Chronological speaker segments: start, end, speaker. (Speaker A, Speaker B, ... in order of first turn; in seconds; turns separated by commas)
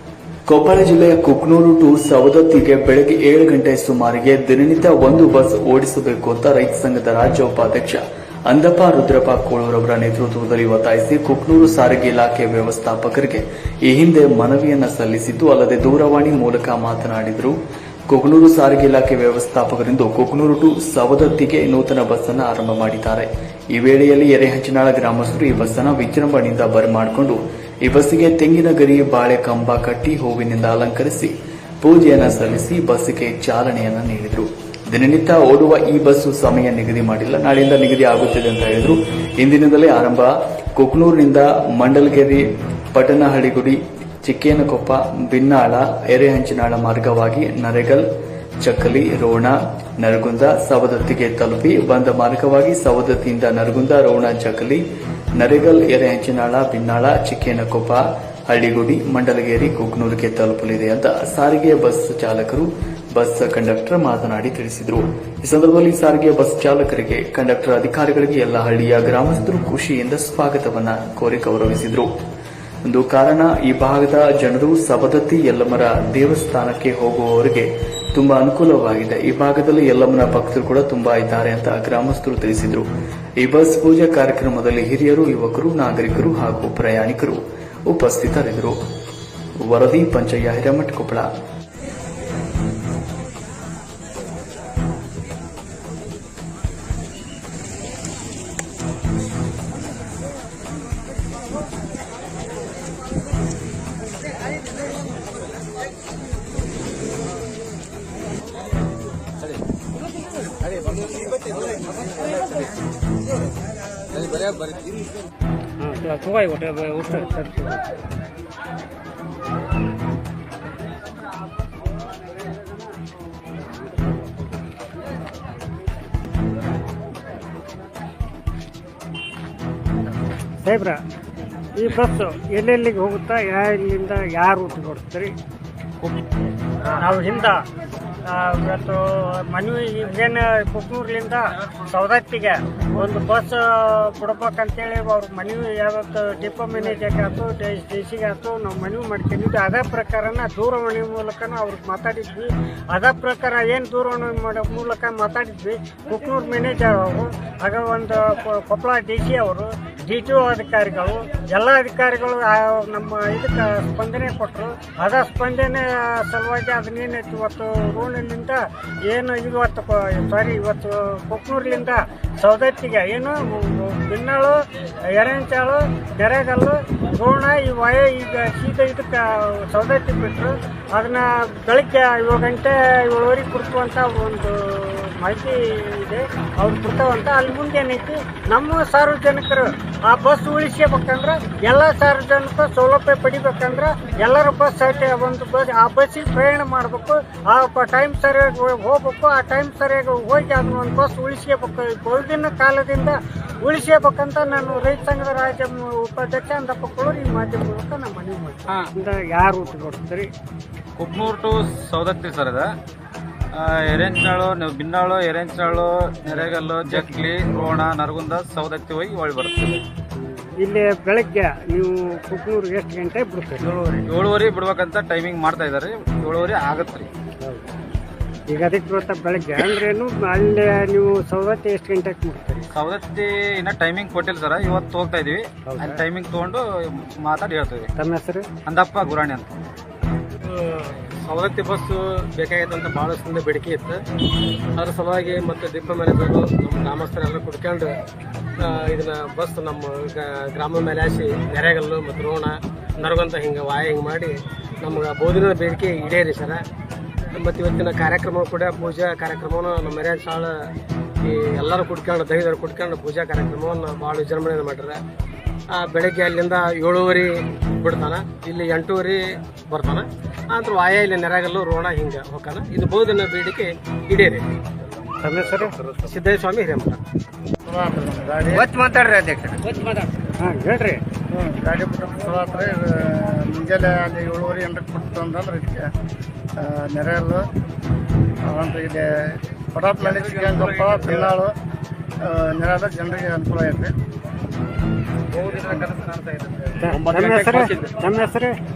Speaker A: 0.5-17.6, Speaker A: 18.1-48.0, Speaker A: 48.6-54.8, Speaker A: 55.4-72.1, Speaker A: 72.8-82.8, Speaker A: 83.4-88.8, Speaker A: 89.6-91.3, Speaker B: 115.8-117.8, Speaker B: 130.6-131.0, Speaker B: 131.8-135.3, Speaker B: 136.9-137.6, Speaker B: 138.3-174.6, Speaker B: 175.1-210.3, Speaker C: 211.0-212.7, Speaker C: 213.5-219.8, Speaker B: 220.2-223.8, Speaker C: 224.0-227.1, Speaker B: 228.5-232.7, Speaker C: 232.7-237.9, Speaker B: 235.7-236.0, Speaker B: 238.0-238.5, Speaker C: 238.7-239.6, Speaker D: 240.4-244.0, Speaker D: 244.8-247.9, Speaker D: 248.6-256.6, Speaker D: 257.3-260.5, Speaker D: 261.2-265.0, Speaker D: 265.7-274.4, Speaker B: 275.2-275.7, Speaker D: 276.0-277.0, Speaker E: 277.6-278.7, Speaker B: 279.7-281.0, Speaker E: 281.3-285.9, Speaker E: 286.6-287.5, Speaker E: 288.4-289.2, Speaker E: 289.7-291.5, Speaker C: 290.1-291.1, Speaker E: 292.2-293.9, Speaker C: 295.3-297.8, Speaker B: 296.8-298.5